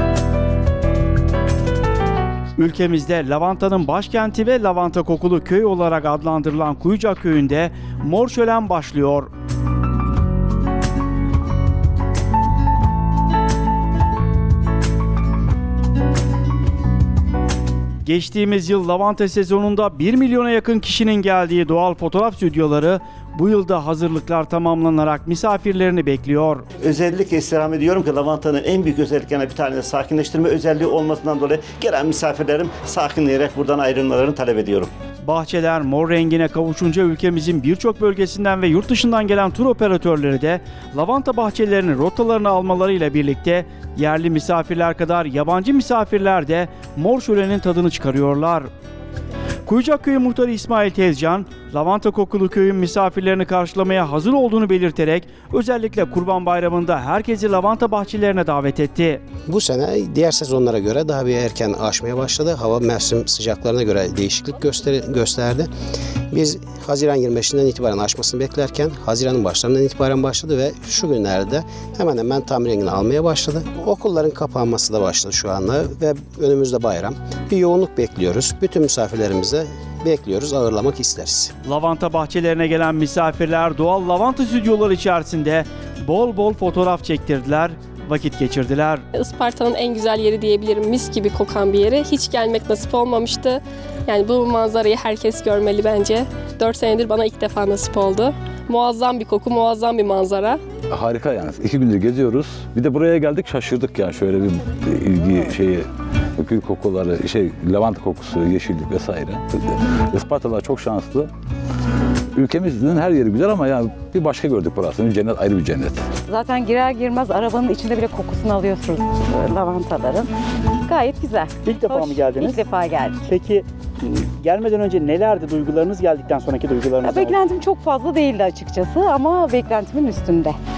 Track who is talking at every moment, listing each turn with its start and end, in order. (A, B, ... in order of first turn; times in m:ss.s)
0:02.6-0:09.3 A
0:18.0-0:26.6 A
0:26.9-0:34.9 B
0:35.2-0:48.7 A
0:49.7-0:59.2 A
0:59.5-1:05.7 C
1:06.3-1:21.5 C
1:21.6-1:29.0 A
1:29.1-1:40.6 D
1:40.9-1:45.9 E
1:46.4-1:51.3 E
1:52.4-1:56.1 E
1:56.2-2:00.3 F
2:00.8-2:03.3 F
2:01.6-2:02.6 A
2:03.3-2:07.4 A
2:07.0-2:10.6 F